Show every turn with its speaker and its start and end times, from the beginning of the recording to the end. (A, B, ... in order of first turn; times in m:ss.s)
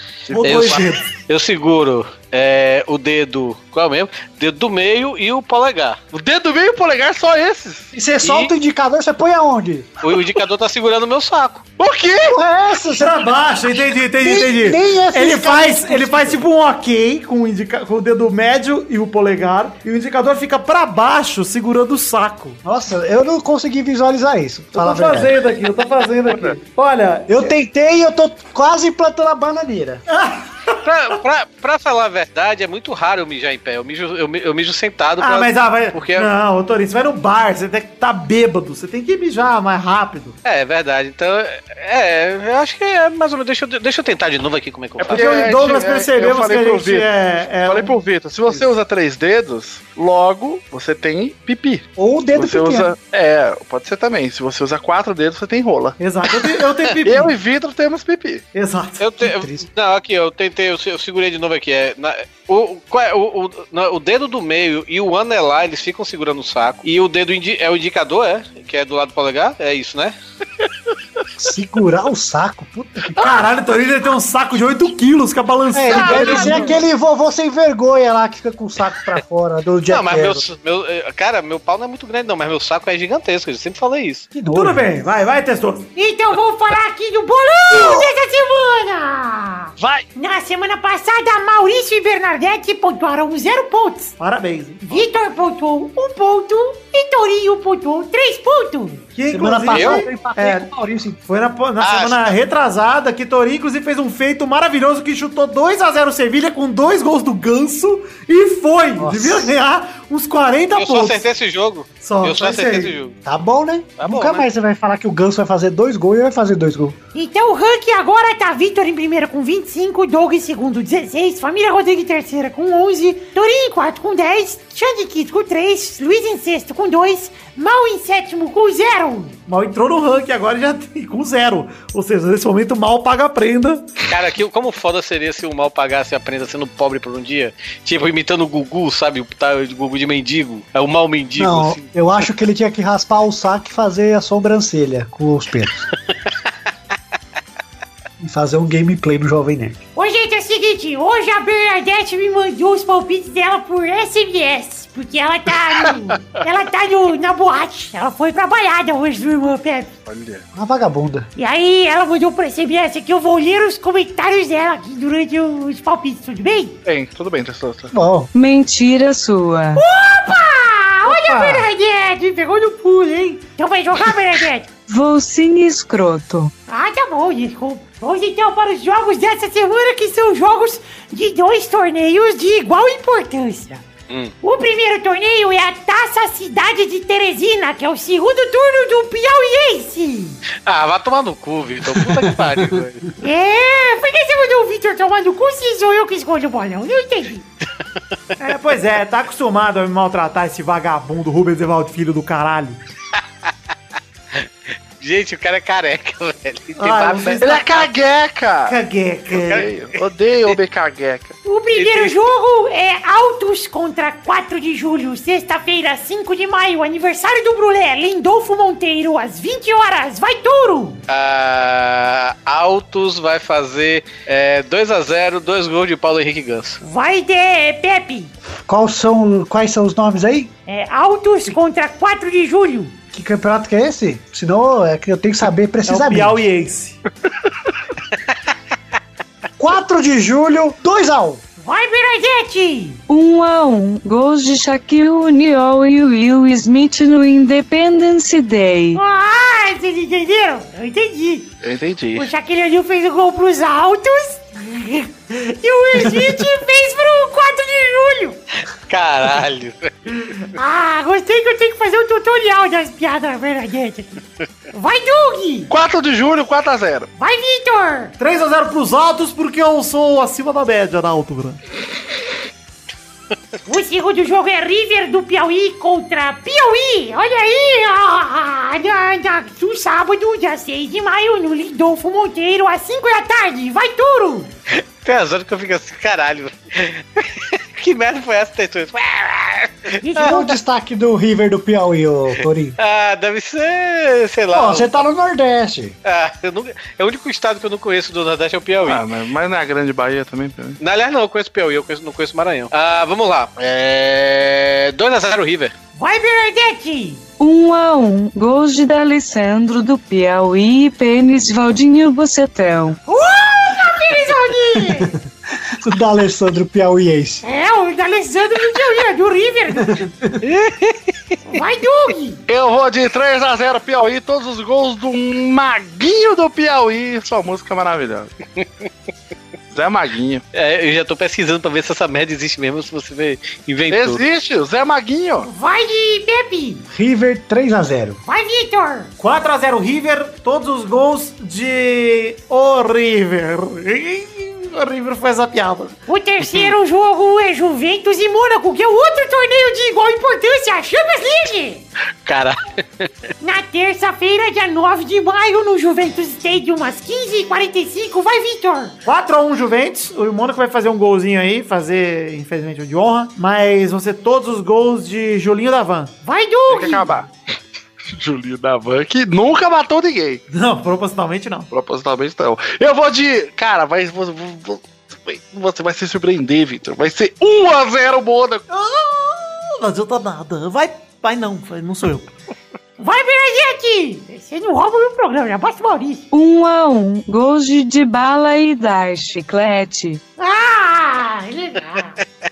0:00.3-0:00.8 A
0:00.3-0:01.1 B
0:00.4-0:06.0 C
0:06.1-0:07.9 A
0:07.9-0:09.9 D
0:08.2-0:08.5 C
0:10.0-0:11.6 C
0:11.8-0:12.4 A
0:12.2-0:13.2 D
0:13.0-0:22.6 B
0:14.2-0:16.4 D
0:22.6-0:25.3 D
0:24.8-0:27.3 B
0:26.3-0:26.6 A
0:27.3-0:30.0 D
0:30.1-0:30.8 B
0:30.8-0:36.3 C
0:35.2-0:40.4 B
0:40.4-0:45.3 C
0:45.0-0:47.1 A
0:45.1-0:48.7 B
0:47.6-0:56.0 A
0:52.0-0:52.9 D
0:56.0-0:57.3 B
0:57.0-0:58.4 A
0:58.5-0:59.0 B
0:59.0-1:10.1 C
0:59.2-0:59.7 D
1:11.4-1:13.4 D
1:13.2-1:16.8 B
1:15.7-1:20.4 D
1:16.0-1:16.6 E
1:19.9-1:24.3 C
1:24.4-1:25.0 D
1:24.5-1:25.9 B
1:26.0-1:34.1 E
1:34.2-1:35.0 B
1:34.9-1:39.0 E
1:39.1-1:40.7 B
1:39.3-1:41.2 D
1:39.7-1:40.0 C
1:41.3-1:51.2 B
1:41.8-1:42.4 C
1:49.0-1:49.5 D
1:50.8-1:53.2 C
1:52.0-1:52.9 B
1:53.2-1:57.0 D
1:54.0-1:54.5 C
1:57.2-2:09.4 E
2:09.5-2:13.8 B
2:14.1-2:21.9 C
2:21.4-2:25.9 D
2:28.2-2:29.8 D
2:30.0-2:39.9 E
2:35.8-2:36.4 A
2:40.1-2:40.5 A
2:40.5-2:41.3 D
2:41.4-2:46.8 E
2:46.9-2:47.9 A
2:47.9-2:48.3 D
2:48.3-2:49.8 F
2:49.8-2:54.7 E
2:51.1-2:51.7 D
2:54.9-2:56.5 F
2:56.7-3:03.8 E
3:04.4-3:10.4 E
3:10.6-3:13.1 C
3:12.1-3:12.8 D
3:13.2-3:17.5 E
3:18.4-3:22.8 B
3:25.0-3:27.9 C
3:26.8-3:27.6 B
3:27.4-3:28.8 A
3:28.7-3:29.7 B
3:29.3-3:31.4 A
3:31.4-3:41.0 E
3:31.8-3:32.2 C
3:41.1-3:46.8 C
3:46.8-3:48.3 E
3:48.7-3:50.5 D
3:50.7-3:52.9 E
3:53.1-3:56.4 D
3:55.9-3:57.0 B
3:59.6-4:01.4 D
4:01.6-4:03.0 E
4:03.1-4:09.0 F
4:08.9-4:11.5 E
4:11.6-4:12.3 A
4:12.2-4:18.4 E
4:18.7-4:19.9 C
4:20.6-4:24.2 E
4:24.7-4:25.7 E
4:25.7-4:27.1 A
4:27.2-4:28.1 E
4:28.2-4:31.6 B
4:33.7-4:44.5 E
4:44.7-4:50.5 C
4:50.0-4:50.5 E
4:50.2-4:52.8 D
4:52.8-4:55.0 C
4:54.5-4:56.0 D
4:56.0-4:59.0 C
4:58.8-5:00.8 A
5:00.8-5:05.7 C
5:06.0-5:07.2 E
5:07.4-5:13.0 F
5:13.1-5:15.2 E
5:14.8-5:17.4 D
5:17.4-5:20.0 E
5:19.8-5:20.4 D
5:20.4-5:21.4 C
5:21.5-5:22.4 E
5:22.5-5:28.3 A
5:29.7-5:30.4 A
5:30.5-5:34.2 C
5:33.9-5:35.5 A
5:35.4-5:36.8 E
5:36.9-5:38.2 D
5:38.3-5:39.1 E
5:39.2-5:45.9 B
5:46.1-5:51.8 E
5:46.4-5:46.7 C
5:52.2-5:53.1 C
5:53.4-5:58.9 E
5:59.0-6:06.1 B
6:06.2-6:07.1 E
6:06.7-6:07.3 A
6:08.0-6:10.4 A
6:10.5-6:11.7 B
6:11.7-6:18.6 A
6:18.7-6:22.3 B
6:23.0-6:26.2 E
6:26.3-6:30.2 F
6:30.4-6:32.2 E